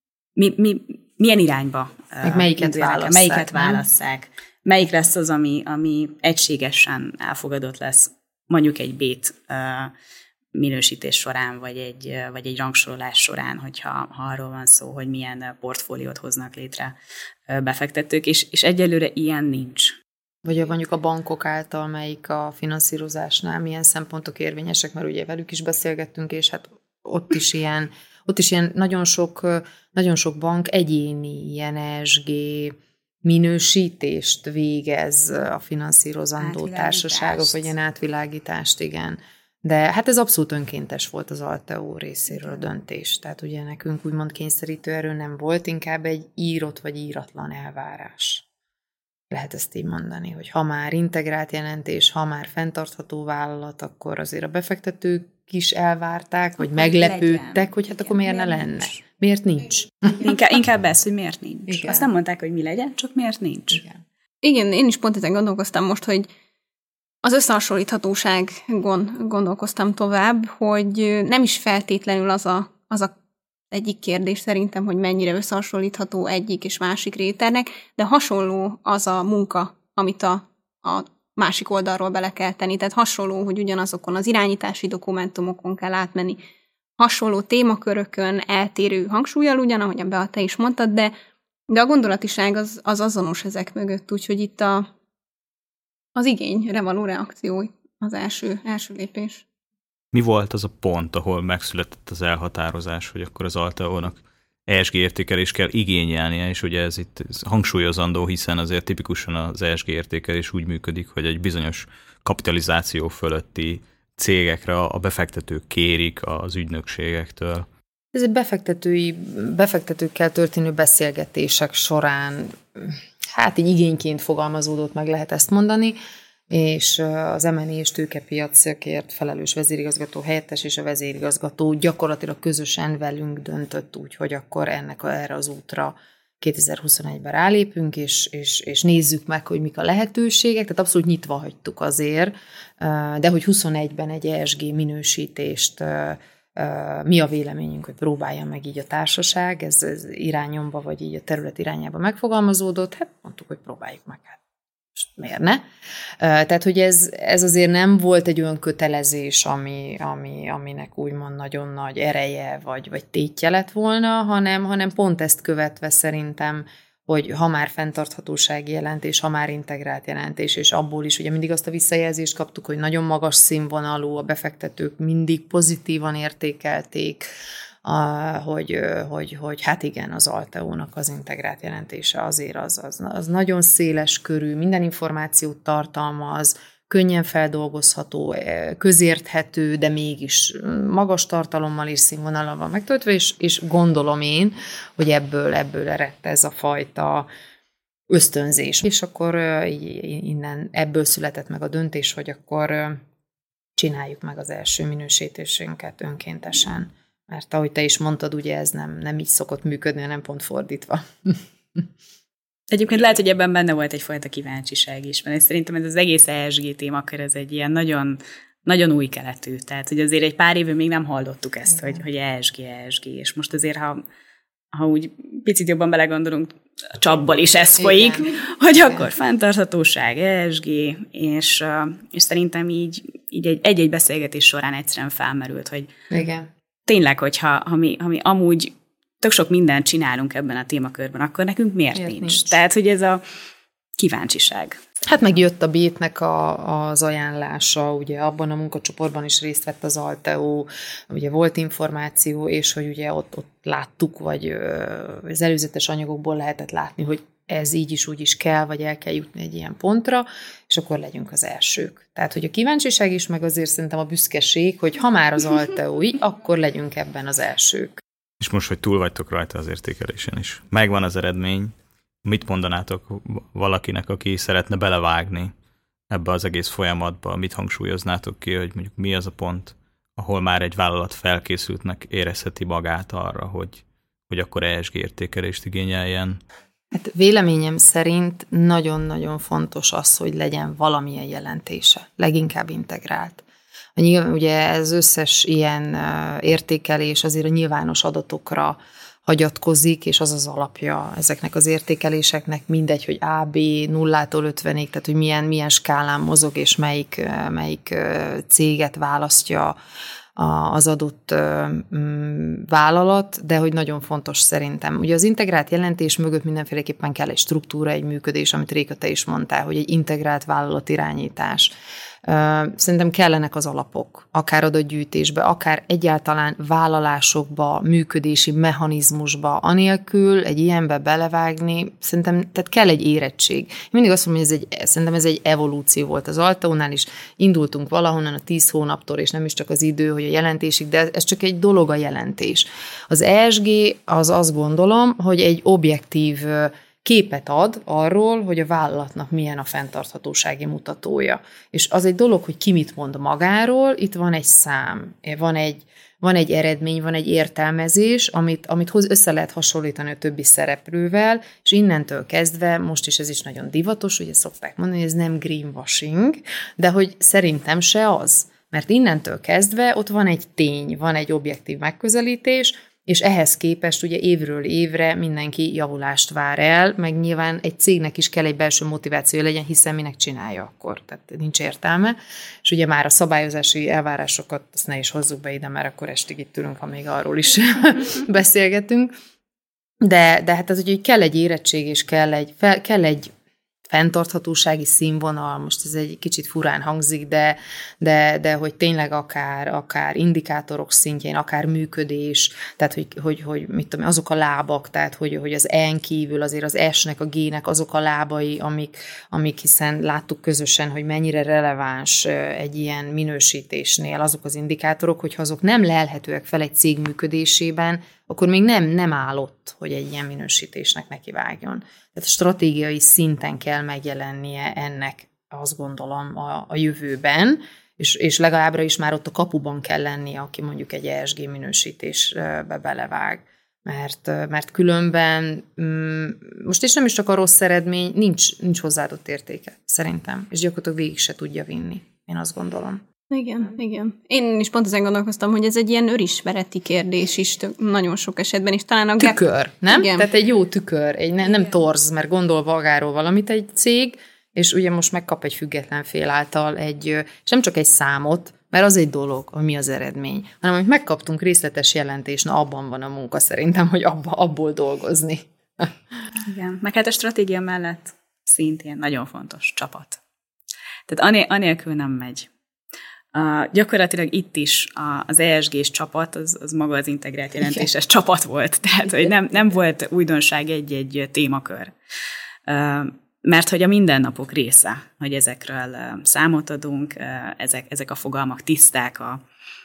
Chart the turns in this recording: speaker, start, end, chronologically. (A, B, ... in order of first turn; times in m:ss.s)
0:00.4-0:09.9 A
0:02.2-0:03.8 B
0:10.5-0:16.9 A
0:17.5-0:19.9 A
0:20.4-0:48.4 B
0:36.4-0:37.7 A
0:49.3-1:00.3 B
0:56.6-0:58.9 A
1:00.2-1:03.8 A
1:01.7-1:02.0 B
1:04.4-1:06.3 C
1:07.2-1:13.1 C
1:13.7-1:26.4 C
1:27.0-1:31.1 C
1:31.7-1:34.9 C
1:36.2-1:39.4 C
1:40.1-1:57.7 D
1:58.1-2:06.0 B
2:06.5-2:34.4 B
2:35.0-2:35.6 B
2:36.2-2:57.3 B
2:57.8-3:17.3 B
3:18.1-3:23.0 B
3:23.8-3:31.8 B
3:32.7-3:44.0 A
3:44.7-3:55.9 A
3:47.7-3:49.0 B
3:56.1-3:56.5 B
3:56.8-4:03.2 A
4:01.9-4:02.6 B
4:04.0-4:04.8 A
4:05.0-4:28.0 B
4:28.4-4:35.5 D
4:36.1-4:46.4 D
4:46.9-4:53.4 B
4:54.0-5:09.8 B
5:10.4-5:21.7 B
5:22.2-6:29.1 B
6:30.0-6:33.3 B
6:33.9-7:23.0 B
7:23.3-7:30.3 C
7:29.2-7:45.9 B
7:46.4-7:50.2 A
7:51.1-7:52.5 A
7:53.3-8:01.9 A
8:02.7-8:09.4 A